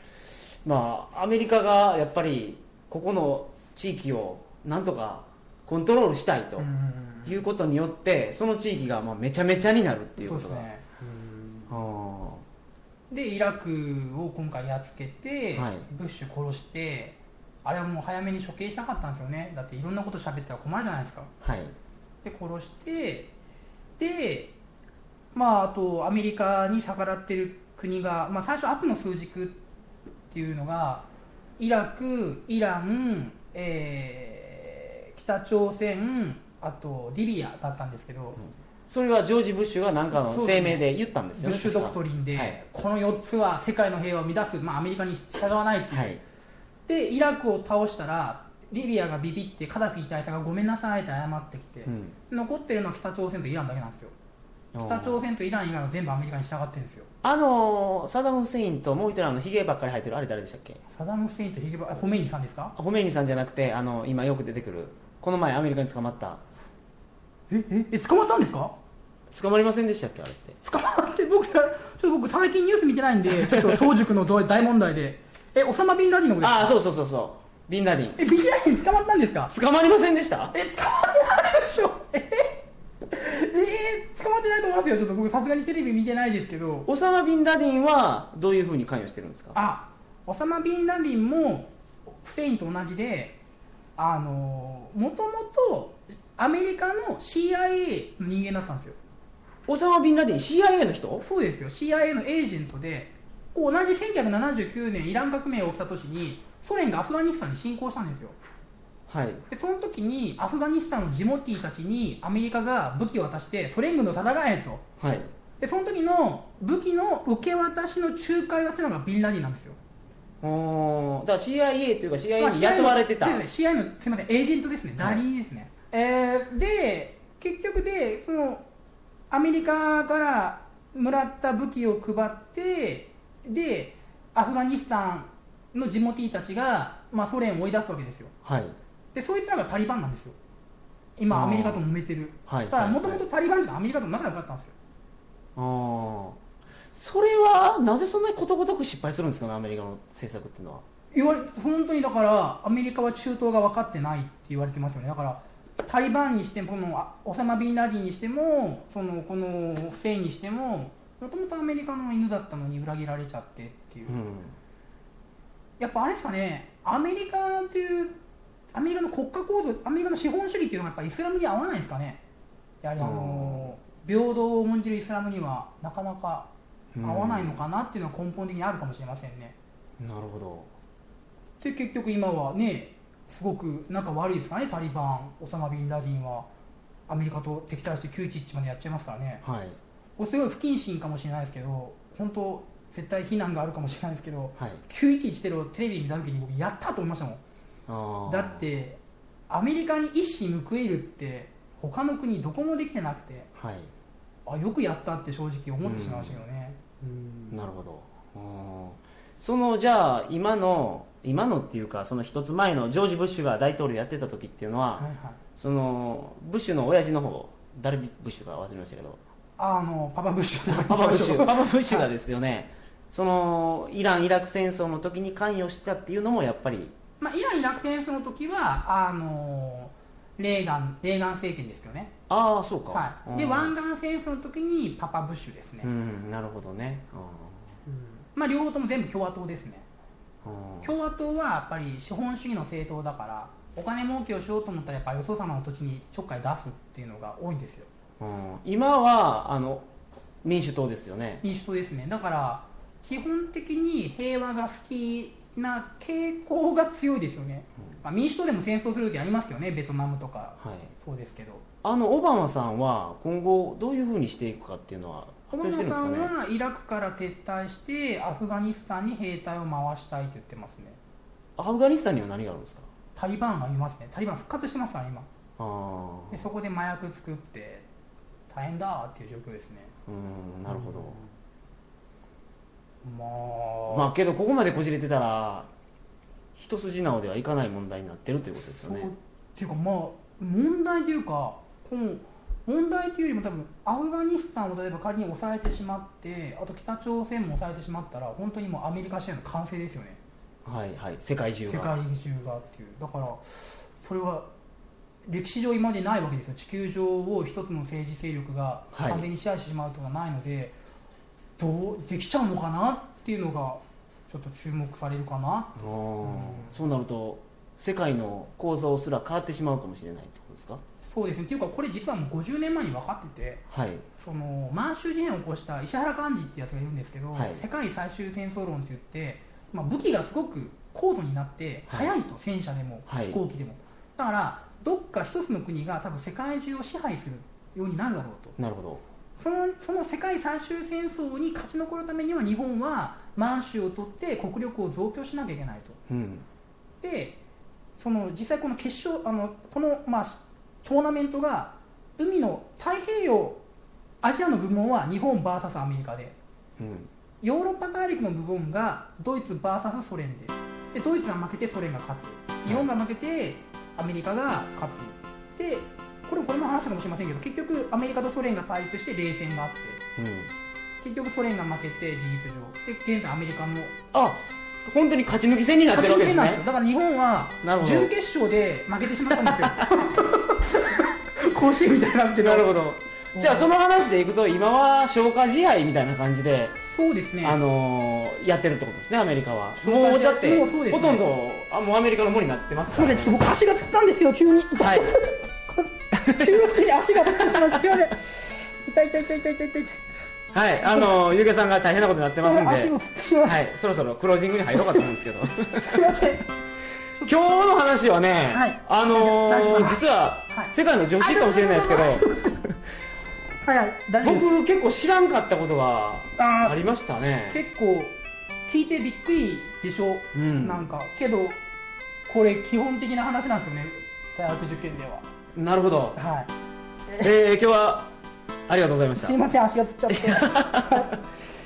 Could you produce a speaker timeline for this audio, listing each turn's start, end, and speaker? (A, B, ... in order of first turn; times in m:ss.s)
0:00.6-0:06.7 A
0:06.6-0:07.4 B
0:07.2-0:10.7 A
0:10.2-0:11.7 B
0:11.7-0:12.4 A
0:13.1-0:21.3 B
0:15.6-0:15.9 A
0:21.4-0:21.7 A
0:22.2-0:23.3 B
0:24.0-0:24.6 B
0:25.3-0:29.6 B
0:30.3-0:31.1 B
0:31.6-0:38.4 B
0:38.9-0:42.6 A
0:40.1-0:40.9 B
0:41.4-0:46.2 B
0:45.9-0:46.2 A
0:46.9-0:54.1 B
0:51.9-0:52.2 A
0:54.7-0:55.2 A
0:54.8-0:57.1 B
0:57.2-1:00.8 A
1:00.9-1:02.8 B
1:02.8-1:06.4 A
1:07.5-1:08.8 B
1:09.3-1:10.6 A
1:10.6-1:16.8 B
1:13.4-1:13.8 A
1:16.4-1:18.2 A
1:18.2-1:19.5 B
1:19.5-1:20.5 A
1:20.5-1:26.9 B
1:26.9-1:29.6 A
1:29.5-1:33.4 B
1:34.0-1:39.0 B
1:39.7-1:41.2 A
1:41.2-1:48.4 B
1:49.1-1:49.4 A
1:49.5-1:54.8 B
1:55.0-1:55.3 A
1:55.6-1:59.8 B
2:00.4-2:03.4 A
2:02.4-2:08.6 B
2:05.0-2:05.2 A
2:09.3-2:18.3 B
2:18.4-2:18.8 A
2:19.1-2:20.4 B
2:21.2-2:24.7 B
2:21.3-2:21.8 A
2:22.5-2:23.2 A
2:25.6-2:26.4 A
2:26.9-2:30.8 A
2:31.1-2:44.2 B
2:44.1-2:44.6 A
2:45.8-2:48.2 B
2:48.7-2:52.2 B
2:52.8-2:56.5 B
2:53.0-2:53.7 A
2:57.0-2:57.6 A
2:57.0-2:59.6 B
3:00.0-3:00.7 A
3:01.6-3:06.5 B
3:07.1-3:09.4 B
3:09.4-3:09.8 A
3:10.2-3:17.4 B
3:17.9-3:18.7 A
3:18.3-3:23.5 B
3:23.6-3:23.9 A
3:24.5-3:27.6 B
3:25.8-3:26.4 A
3:27.5-3:39.2 A
3:35.0-3:35.4 B
3:39.6-3:42.1 B
3:40.7-3:46.9 A
3:47.2-3:52.1 B
3:52.3-3:53.7 A
3:52.9-3:55.9 B
3:55.8-3:57.8 A
3:57.9-3:59.9 B
4:00.4-4:00.9 A
4:00.8-4:07.9 B
4:08.2-4:09.9 A
4:10.4-4:11.4 A
4:11.4-4:21.6 B
4:20.6-4:20.9 A
4:21.8-4:26.3 A
4:25.5-4:31.0 B
4:31.6-4:32.9 A
4:33.2-4:35.3 B
4:35.6-4:36.5 A
4:36.3-4:37.9 B
4:38.5-4:39.9 B
4:40.1-4:41.2 A
4:40.7-4:41.2 B
4:43.0-4:44.1 B
4:43.9-4:45.7 A
4:46.6-4:49.1 A
4:48.6-5:00.2 B
5:00.6-5:02.0 A
5:01.7-5:04.5 B
5:05.3-5:10.8 B
5:08.9-5:09.3 A
5:11.6-5:16.8 B
5:15.8-5:20.8 A
5:21.0-5:23.6 B
5:23.7-5:24.1 A
5:24.2-5:38.6 B
5:27.3-5:27.6 A
5:33.1-5:33.4 A
5:38.6-5:39.0 A
5:39.4-5:46.0 B
5:46.1-5:46.4 A
5:47.0-5:47.4 B
5:48.0-5:53.6 B
5:54.2-5:56.4 B
5:56.8-5:57.1 A
5:57.4-6:10.0 B
6:10.2-6:10.5 A
6:11.0-6:14.0 B
6:14.1-6:16.6 A
6:15.9-6:22.8 B
6:17.6-6:18.1 A
6:19.3-6:20.0 A
6:22.4-6:26.8 A
6:23.4-6:23.7 B
6:26.8-6:27.6 B
6:27.4-6:33.4 A
6:29.8-6:31.3 B
6:32.9-6:40.2 B
6:34.8-6:35.1 A
6:36.1-6:36.6 A
6:37.4-6:37.8 A
6:40.5-6:46.2 A
6:40.8-6:41.1 B
6:42.4-6:43.7 B
6:44.8-6:45.1 B
6:45.8-6:46.4 B
6:47.2-6:52.8 A
6:48.5-6:52.6 B
6:53.6-6:54.5 B
6:54.2-6:57.6 A
6:56.4-6:56.8 B
6:57.5-7:01.6 B
7:00.3-7:00.9 A
7:02.3-7:05.3 B
7:05.6-7:06.2 A
7:06.2-7:06.5 B
7:07.2-7:08.1 A
7:08.7-7:09.4 A
7:09.2-7:11.1 B
7:10.1-7:11.2 A